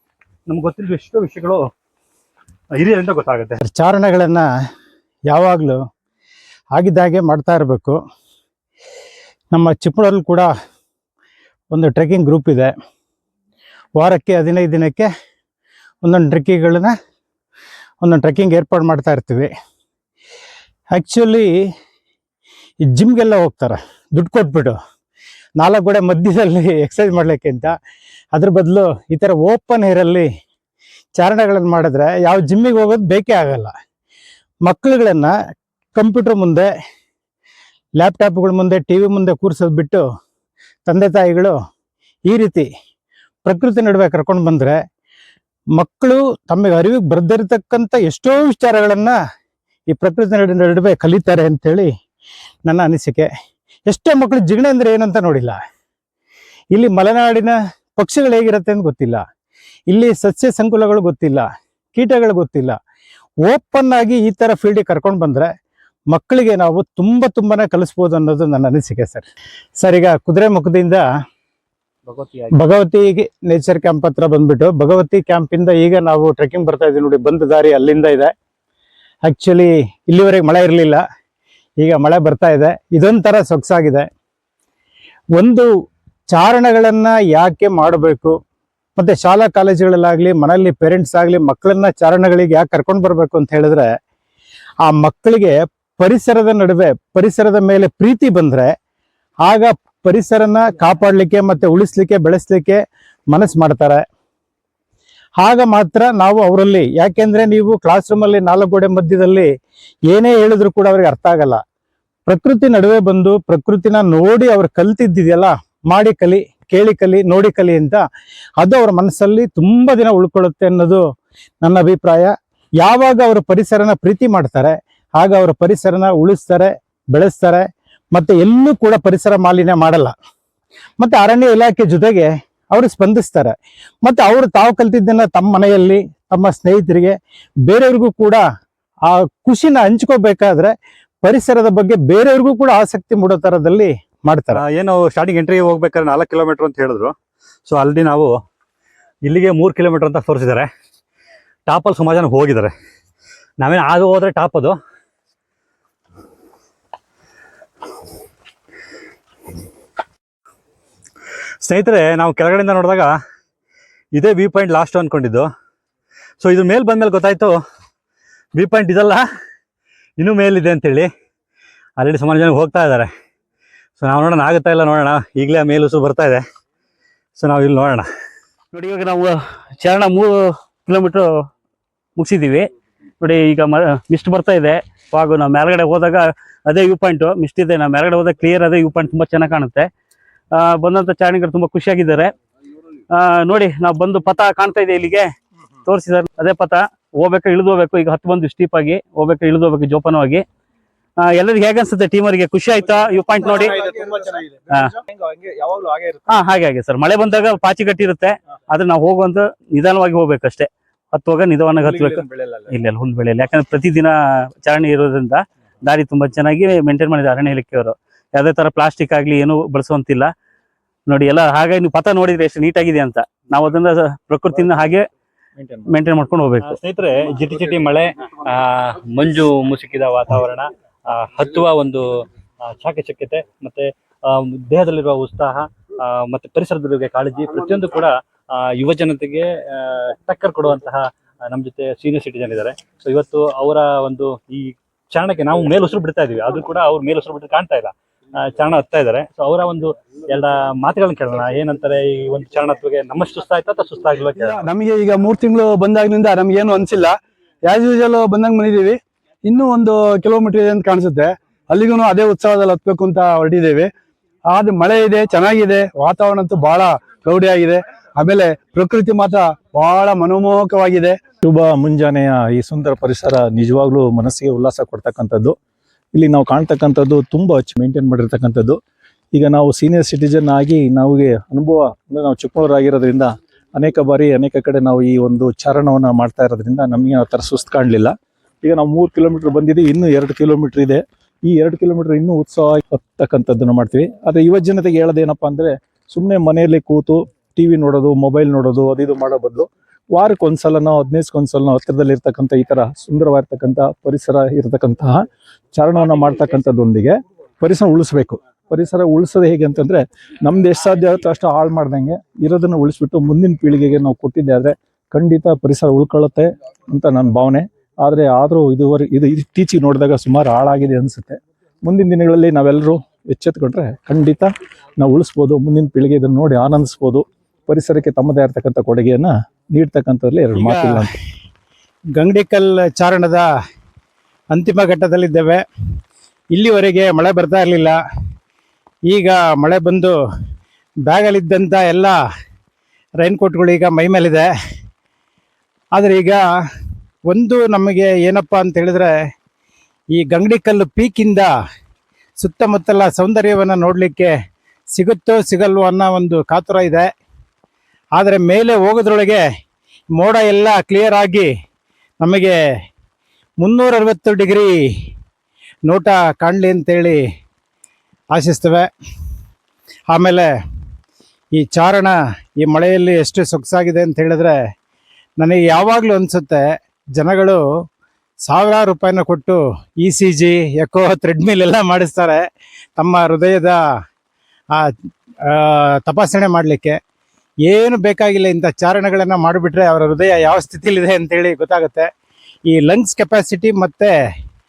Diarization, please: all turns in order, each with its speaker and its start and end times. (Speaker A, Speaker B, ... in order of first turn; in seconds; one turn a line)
Speaker A: 0.5-1.6
Speaker A: 2.8-3.6
Speaker B: 3.6-4.5
Speaker B: 5.3-5.8
Speaker B: 6.8-8.0
Speaker B: 9.5-10.5
Speaker B: 11.7-12.7
Speaker B: 14.0-15.1
Speaker B: 16.0-16.9
Speaker B: 18.0-19.5
Speaker B: 20.9-21.5
Speaker B: 22.9-24.8
Speaker B: 25.6-27.7
Speaker B: 28.3-30.3
Speaker B: 31.1-33.7
Speaker B: 34.6-35.3
Speaker B: 36.0-36.7
Speaker B: 38.0-40.0
Speaker B: 40.9-41.6
Speaker B: 42.3-42.7
Speaker B: 43.5-44.8
Speaker B: 45.8-49.1
Speaker B: 49.9-51.9
Speaker B: 52.6-53.3
Speaker B: 53.9-55.6
Speaker B: 56.7-59.2
Speaker B: 59.9-62.8
Speaker B: 63.5-65.5
Speaker B: 66.1-69.2
Speaker B: 69.8-71.0
Speaker C: 72.1-72.5
Speaker B: 72.6-78.3
Speaker B: 79.2-81.0
Speaker B: 81.8-84.1
Speaker B: 85.4-85.7
Speaker B: 86.3-88.3
Speaker B: 89.0-93.9
Speaker B: 94.9-98.7
Speaker B: 99.5-102.8
Speaker B: 103.3-104.0
Speaker B: 105.4-109.5
Speaker B: 110.1-111.6
Speaker B: 112.2-118.0
Speaker B: 118.6-121.0
Speaker B: 121.6-122.3
Speaker B: 122.8-130.1
Speaker B: 131.0-137.2
Speaker B: 137.7-138.4
Speaker B: 139.1-140.7
Speaker B: 141.2-144.6
Speaker A: 144.5-147.1
Speaker A: 147.7-148.3
Speaker A: 149.2-150.7
Speaker A: 151.7-152.7
Speaker A: 153.6-154.8
Speaker A: 161.6-163.1
Speaker A: 164.1-165.5
Speaker A: 166.4-167.5
Speaker A: 168.6-169.2
Speaker A: 170.2-171.1
Speaker A: 172.0-173.1
Speaker A: 174.0-176.4
Speaker A: 177.4-178.1
Speaker C: 178.7-180.3
Speaker C: 180.8-181.2
Speaker C: 182.2-182.6
Speaker C: 183.2-189.9
Speaker C: 190.5-192.3
Speaker C: 193.1-195.3
Speaker C: 195.8-200.4
Speaker C: 201.2-203.8
Speaker D: 203.4-204.5
Speaker D: 205.2-206.2
Speaker C: 206.3-220.3
Speaker D: 212.1-212.6
Speaker C: 221.1-225.1
Speaker E: 225.6-225.9
Speaker C: 225.9-226.8
Speaker A: 226.6-254.7
Speaker D: 254.4-263.9
Speaker D: 264.5-271.2
Speaker E: 271.4-275.6
Speaker E: 276.1-278.8
Speaker E: 279.3-331.1
Speaker B: 330.6-331.1
Speaker B: 332.2-333.4
Speaker B: 334.5-335.6
Speaker B: 336.5-338.0
Speaker B: 339.1-340.1
Speaker B: 341.1-342.1
Speaker B: 343.2-344.4
Speaker B: 345.9-346.4
Speaker B: 347.3-349.1
Speaker B: 350.1-351.5
Speaker B: 352.4-354.3
Speaker B: 354.9-357.1
Speaker B: 358.1-359.4
Speaker B: 360.1-361.5
Speaker B: 362.2-362.6
Speaker B: 363.6-364.8
Speaker B: 365.9-367.2
Speaker B: 368.3-368.9
Speaker B: 370.1-370.5
Speaker B: 371.6-374.6
Speaker B: 375.4-376.6
Speaker B: 377.1-377.6
Speaker B: 378.4-382.4
Speaker B: 383.0-383.8
Speaker B: 385.5-387.0
Speaker B: 387.7-392.1
Speaker B: 392.7-394.1